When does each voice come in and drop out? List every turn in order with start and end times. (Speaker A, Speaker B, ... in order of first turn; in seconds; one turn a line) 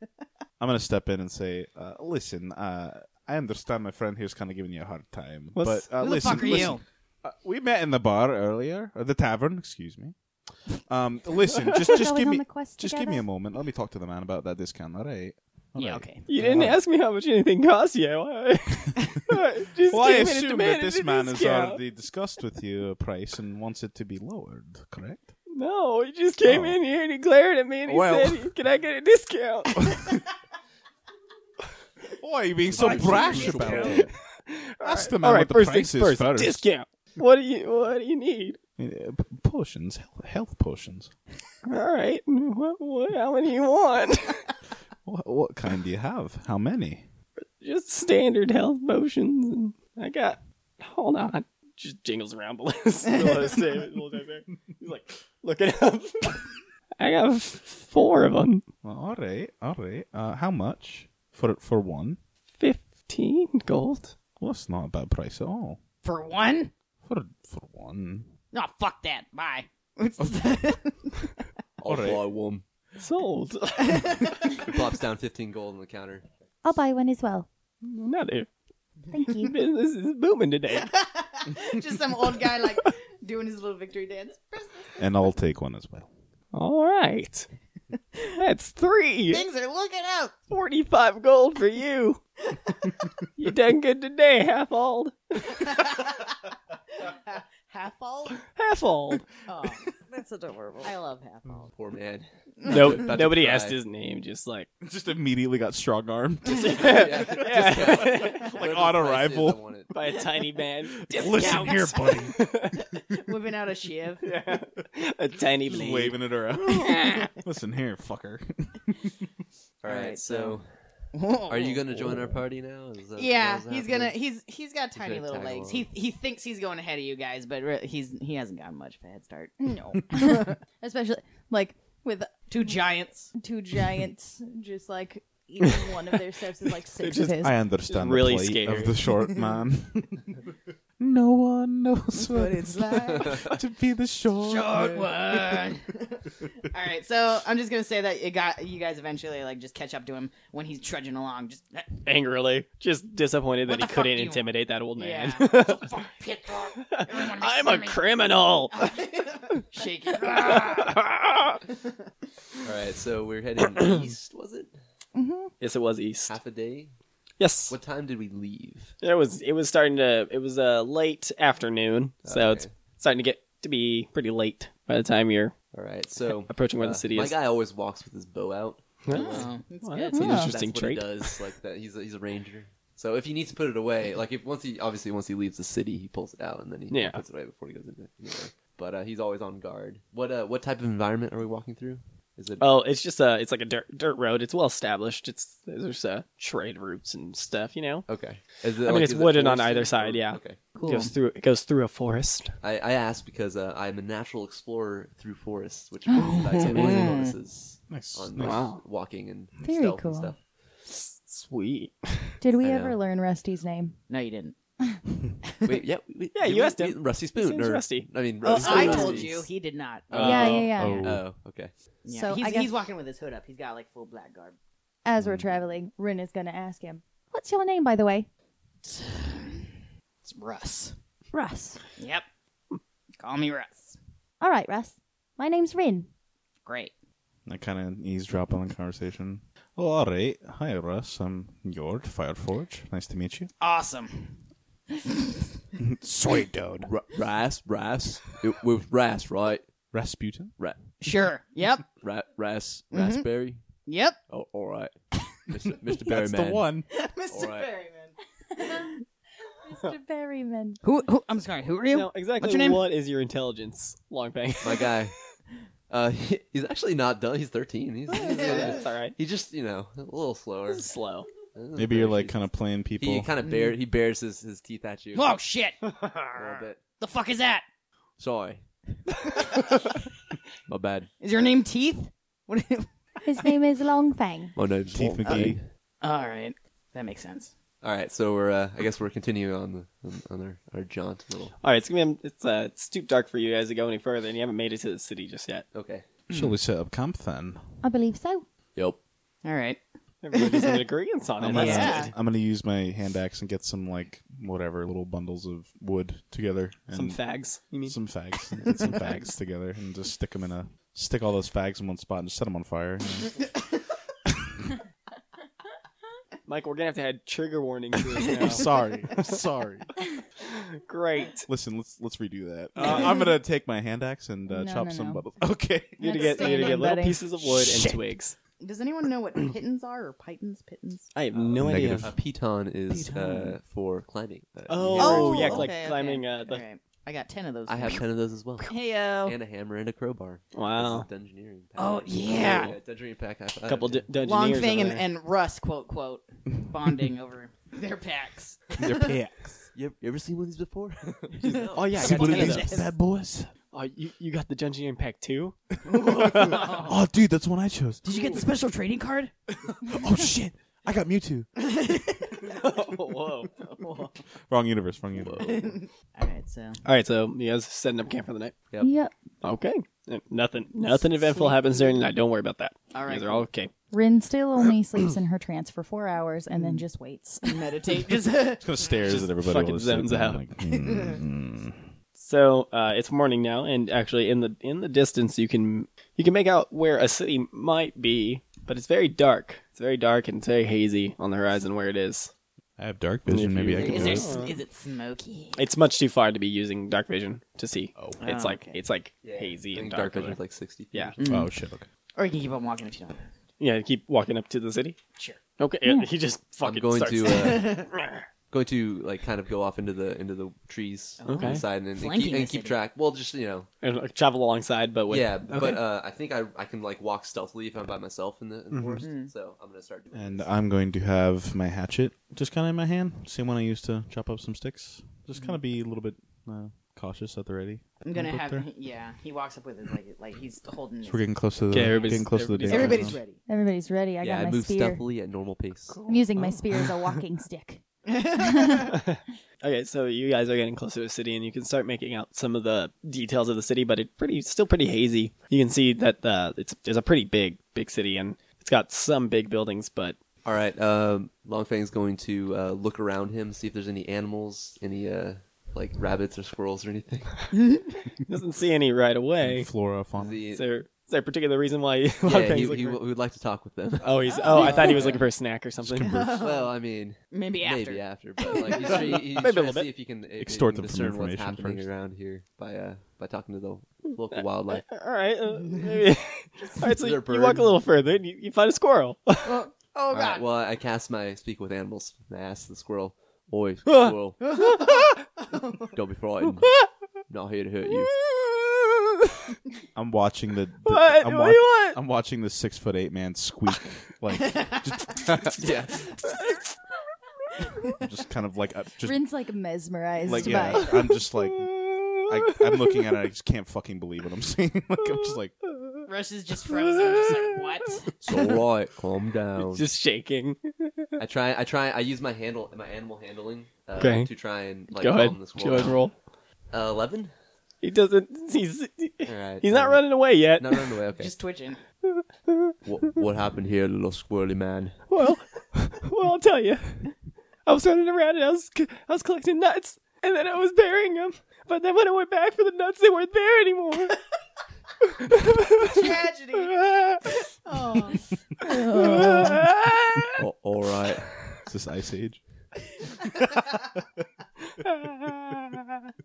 Speaker A: 0.6-16.8
Speaker B: 5.5-6.6
Speaker C: 6.0-6.8
Speaker D: 11.9-13.2
Speaker C: 15.8-16.2
Speaker B: 16.3-21.8
Speaker A: 19.9-25.3
Speaker B: 25.5-30.0
Speaker A: 26.4-26.8
Speaker A: 27.9-28.5
Speaker A: 29.9-30.2
Speaker A: 32.2-34.1
Speaker E: 32.7-34.1
Speaker B: 32.8-38.6
Speaker A: 34.8-36.7
Speaker A: 38.8-41.1
Speaker B: 41.6-44.5
Speaker A: 45.0-47.1
Speaker B: 47.4-58.6
Speaker A: 58.8-62.2
Speaker B: 62.6-64.2
Speaker A: 64.4-65.8
Speaker C: 66.0-66.7
Speaker A: 67.0-68.3
Speaker C: 68.5-71.3
Speaker E: 71.8-72.7
Speaker A: 71.9-72.2
Speaker B: 73.0-74.2
Speaker C: 73.8-74.7
Speaker E: 74.6-76.3
Speaker D: 76.6-77.5
Speaker B: 77.8-78.5
Speaker D: 79.1-79.5
Speaker B: 79.4-80.9
Speaker C: 80.7-85.0
Speaker A: 85.0-86.1
Speaker B: 86.5-87.5
Speaker B: 88.3-89.5
Speaker C: 89.3-90.3
Speaker B: 90.5-92.2
Speaker B: 93.4-95.6
Speaker C: 95.6-96.2
Speaker C: 97.0-98.4
Speaker B: 98.5-99.3
Speaker C: 99.5-100.0
Speaker D: 100.1-100.9
Speaker C: 100.8-101.7
Speaker E: 101.7-103.8
Speaker C: 102.6-103.0
Speaker B: 102.7-104.7
Speaker A: 104.8-109.6
Speaker B: 106.5-108.6
Speaker E: 106.8-109.9
Speaker B: 109.9-112.8
Speaker A: 111.0-112.4
Speaker C: 111.1-112.2
Speaker C: 112.8-114.2
Speaker B: 114.2-116.2
Speaker A: 115.7-119.1
Speaker C: 116.8-117.2
Speaker E: 119.8-120.8
Speaker C: 119.9-120.6
Speaker C: 121.1-122.2
Speaker E: 121.5-124.2
Speaker C: 123.2-129.6
Speaker E: 125.0-125.9
Speaker D: 129.6-137.6
Speaker C: 132.5-133.3
Speaker B: 137.0-139.0
Speaker A: 137.4-140.4
Speaker A: 141.0-145.6
Speaker C: 142.2-143.5
Speaker C: 144.4-151.9
Speaker B: 152.1-156.0
Speaker C: 153.7-154.4
Speaker C: 155.0-158.0
Speaker B: 156.8-159.0
Speaker C: 158.7-161.0
Speaker B: 160.2-161.6
Speaker E: 162.6-164.7
Speaker D: 165.2-165.5
Speaker B: 165.6-166.3
Speaker E: 166.3-166.9
Speaker B: 167.4-167.8
Speaker E: 167.7-168.9
Speaker B: 169.0-175.6
Speaker E: 172.2-172.7
Speaker E: 175.7-179.5
Speaker B: 176.5-177.3
Speaker B: 179.1-181.5
Speaker C: 179.1-180.4
Speaker D: 180.1-180.5
Speaker E: 180.2-192.7
Speaker B: 186.9-187.2
Speaker B: 192.6-198.1
Speaker E: 198.1-200.7
Speaker B: 198.8-202.6
Speaker C: 200.8-201.1
Speaker E: 202.6-210.4
Speaker D: 206.1-206.5
Speaker C: 206.1-207.3
Speaker B: 206.6-207.0
Speaker A: 207.9-208.7
Speaker B: 208.4-208.8
Speaker D: 209.6-210.3
Speaker B: 210.8-212.4
Speaker D: 212.4-214.0
Speaker E: 212.6-213.0
Speaker C: 214.1-214.6
Speaker C: 215.4-215.8
Speaker E: 215.6-219.5
Speaker B: 216.3-219.3
Speaker C: 218.4-220.6
Speaker E: 220.1-221.7
Speaker B: 220.1-221.0
Speaker D: 220.2-221.2
Speaker A: 220.8-221.3
Speaker C: 222.0-224.6
Speaker D: 222.1-222.7
Speaker D: 225.1-228.3
Speaker A: 225.2-225.5
Speaker C: 228.8-231.0
Speaker D: 231.3-231.8
Speaker C: 232.0-232.2
Speaker C: 233.2-234.0
Speaker D: 234.4-236.1
Speaker C: 236.7-236.9
Speaker A: 237.5-243.5
Speaker C: 243.6-244.4
Speaker C: 244.9-245.4
Speaker A: 245.8-246.9
Speaker E: 246.8-249.7
Speaker A: 249.9-250.6
Speaker E: 250.6-250.8
Speaker C: 251.0-251.9
Speaker E: 252.0-253.7
Speaker C: 252.9-253.3
Speaker C: 253.8-254.2
Speaker E: 254.3-254.9
Speaker E: 255.5-256.8
Speaker A: 256.1-256.9
Speaker C: 256.9-259.0
Speaker E: 257.3-257.7
Speaker D: 259.6-260.8
Speaker C: 260.8-262.8
Speaker B: 261.9-265.1
Speaker E: 264.6-265.1
Speaker E: 265.9-270.9
Speaker B: 268.2-269.2
Speaker C: 268.2-268.6
Speaker B: 270.7-271.3
Speaker E: 271.5-272.4
Speaker A: 271.8-273.3
Speaker E: 273.0-275.4
Speaker C: 273.4-273.8
Speaker C: 275.1-277.6
Speaker E: 276.3-276.8
Speaker E: 278.2-278.6
Speaker E: 280.7-281.1
Speaker C: 281.2-282.9
Speaker D: 283.2-284.6
Speaker E: 284.6-285.7
Speaker A: 284.9-285.6
Speaker C: 286.0-287.5
Speaker E: 287.8-291.5
Speaker B: 291.6-295.7
Speaker E: 295.7-296.1
Speaker A: 296.3-297.8
Speaker D: 297.8-298.5
Speaker E: 298.8-299.0
Speaker C: 299.4-299.8
Speaker B: 300.2-302.1
Speaker C: 300.3-300.8
Speaker A: 301.4-313.4
Speaker C: 301.5-302.1
Speaker B: 306.9-308.1
Speaker B: 316.5-319.4
Speaker A: 318.4-319.9
Speaker B: 320.5-321.5
Speaker A: 321.5-326.0
Speaker B: 322.8-323.1
Speaker C: 322.8-323.1
Speaker D: 324.5-325.2
Speaker D: 326.0-327.2
Speaker B: 326.0-328.4
Speaker C: 326.1-328.0
Speaker C: 328.6-331.1
Speaker B: 331.1-332.1
Speaker E: 331.3-335.7
Speaker A: 331.6-332.1
Speaker C: 332.9-333.6
Speaker A: 334.6-335.4
Speaker B: 334.7-336.6
Speaker C: 335.0-338.1
Speaker E: 337.7-344.1
Speaker C: 338.6-339.4
Speaker B: 340.5-341.1
Speaker C: 341.8-342.8
Speaker B: 343.7-345.1
Speaker C: 344.2-349.1
Speaker A: 348.8-349.7
Speaker E: 349.7-352.5
Speaker C: 351.4-352.9
Speaker B: 351.7-352.8
Speaker A: 352.0-353.5
Speaker B: 353.7-355.8
Speaker C: 355.9-357.0
Speaker A: 356.1-358.1
Speaker C: 358.0-359.3
Speaker A: 359.7-361.5
Speaker C: 361.6-362.6
Speaker B: 362.4-363.5
Speaker C: 363.6-364.2
Speaker A: 364.5-365.7
Speaker E: 365.2-365.7
Speaker C: 365.4-366.8
Speaker B: 366.8-368.6
Speaker D: 368.8-369.1
Speaker B: 369.4-373.7
Speaker C: 371.2-371.8
Speaker C: 372.9-373.5
Speaker D: 373.9-377.7
Speaker C: 376.5-376.8
Speaker C: 377.4-379.0
Speaker A: 378.6-381.9
Speaker B: 379.1-380.4
Speaker C: 380.7-381.2
Speaker B: 382.2-392.3
Speaker A: 392.8-394.3
Speaker B: 393.3-394.6
Speaker C: 393.7-395.6
Speaker B: 395.6-400.4
Speaker C: 398.2-398.8
Speaker E: 399.2-401.2
Speaker C: 401.2-401.5
Speaker A: 401.2-401.9
Speaker C: 402.2-403.3
Speaker B: 403.6-405.0
Speaker B: 405.6-408.2
Speaker D: 405.9-406.1
Speaker E: 406.6-407.9
Speaker C: 407.4-407.9
Speaker E: 408.5-413.7
Speaker C: 411.2-412.8
Speaker B: 411.3-411.6
Speaker B: 413.8-415.8
Speaker E: 415.1-420.5
Speaker B: 418.7-419.1
Speaker C: 419.0-419.3
Speaker A: 420.1-428.7
Speaker C: 428.0-433.4
Speaker A: 431.0-433.2
Speaker B: 431.7-433.2
Speaker D: 433.5-435.0
Speaker E: 434.2-436.0
Speaker B: 435.9-437.0
Speaker D: 436.1-437.8
Speaker C: 438.1-438.9
Speaker D: 438.4-438.9
Speaker B: 438.9-450.2
Speaker E: 450.4-457.5
Speaker C: 457.6-457.9
Speaker B: 458.3-459.7
Speaker A: 459.4-460.4
Speaker E: 460.1-460.7
Speaker B: 460.5-463.0
Speaker E: 462.2-465.2
Speaker B: 464.0-466.2
Speaker C: 464.3-465.3
Speaker A: 465.8-466.4
Speaker C: 466.0-466.8
Speaker E: 466.4-474.9
Speaker C: 467.3-469.3
Speaker B: 469.1-469.9
Speaker A: 470.4-471.9
Speaker B: 474.4-479.7
Speaker E: 476.9-477.7
Speaker C: 479.4-480.4
Speaker E: 480.1-484.4
Speaker B: 483.9-485.0
Speaker C: 484.5-485.0
Speaker C: 485.5-485.9
Speaker E: 485.9-486.7
Speaker B: 486.4-486.9
Speaker E: 487.3-488.1
Speaker B: 487.9-489.6
Speaker A: 489.9-495.7
Speaker B: 490.9-492.0
Speaker E: 495.6-496.1
Speaker B: 496.2-496.6
Speaker A: 498.0-499.2
Speaker D: 499.0-500.9
Speaker A: 500.3-505.6
Speaker B: 500.8-503.0
Speaker B: 505.1-506.0
Speaker C: 506.1-508.5
Speaker B: 506.7-507.8
Speaker E: 508.2-509.9
Speaker B: 509.6-511.1
Speaker E: 511.2-516.1
Speaker B: 514.0-516.1
Speaker E: 516.7-517.3
Speaker B: 517.8-521.0
Speaker E: 519.2-521.3
Speaker C: 521.2-521.8
Speaker B: 522.0-523.2
Speaker E: 522.9-525.1
Speaker B: 525.1-527.1
Speaker B: 527.7-534.2
Speaker B: 535.3-537.2
Speaker C: 535.8-536.8
Speaker C: 537.6-538.3
Speaker D: 538.7-539.6
Speaker B: 538.9-540.3
Speaker E: 540.4-541.7
Speaker A: 541.7-542.4
Speaker B: 544.8-545.8